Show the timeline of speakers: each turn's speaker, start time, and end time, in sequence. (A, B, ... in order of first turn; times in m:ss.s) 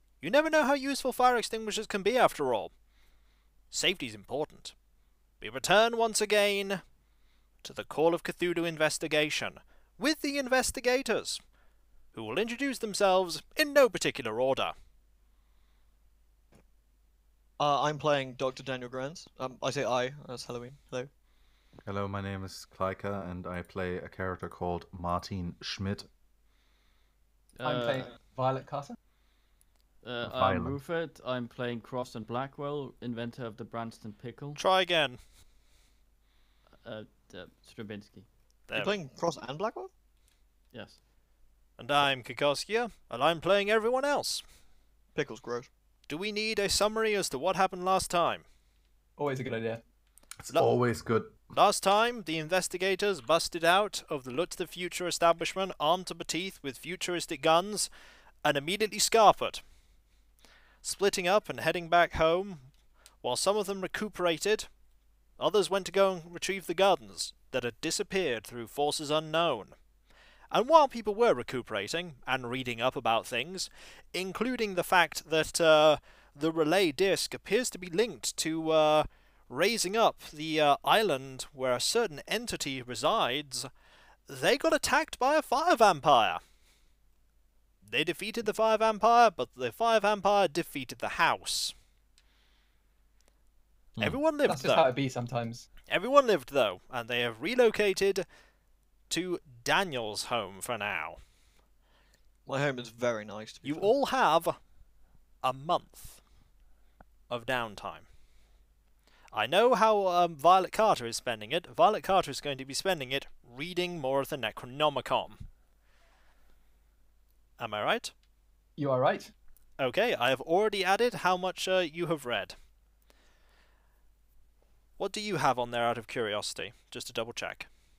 0:00.2-0:02.7 A
0:03.7-0:04.7 A
0:05.4-0:06.8 A
0:07.6-0:11.4 A
0:12.1-0:14.7 A
0:17.6-0:21.1 B
0:21.8-0:26.1 C
0:27.6-0:28.1 D
0:27.6-0:29.0 E
0:30.0-0:34.6 D
0:30.2-0:30.8 C
0:34.6-0:35.2 A
0:36.8-0:38.3 D
0:38.7-0:39.0 A
0:38.7-0:39.9 B
0:40.7-0:41.0 D
0:41.8-0:44.4 A
0:45.1-0:45.7 B
0:46.1-0:48.4 A
0:49.2-0:49.8 E
0:50.4-0:51.4 C
0:51.5-0:57.9 A
0:58.4-0:59.6 A
1:00.8-1:02.6 A
1:03.2-1:04.7 A
1:05.4-1:09.8 A
1:10.5-1:23.7 A
1:24.3-1:26.4 A
1:27.8-1:31.7 A
1:34.0-1:34.9 A
1:34.4-1:35.6 E
1:35.9-1:38.2 A
1:39.1-1:41.2 A
1:42.5-1:43.9 B
1:43.6-1:44.6 A
1:45.4-1:46.2 A
1:47.3-1:48.0 A
1:49.3-1:55.4 A
1:57.6-1:58.1 A
1:58.8-1:59.3 E
1:59.8-2:02.5 A
2:05.0-2:07.7 A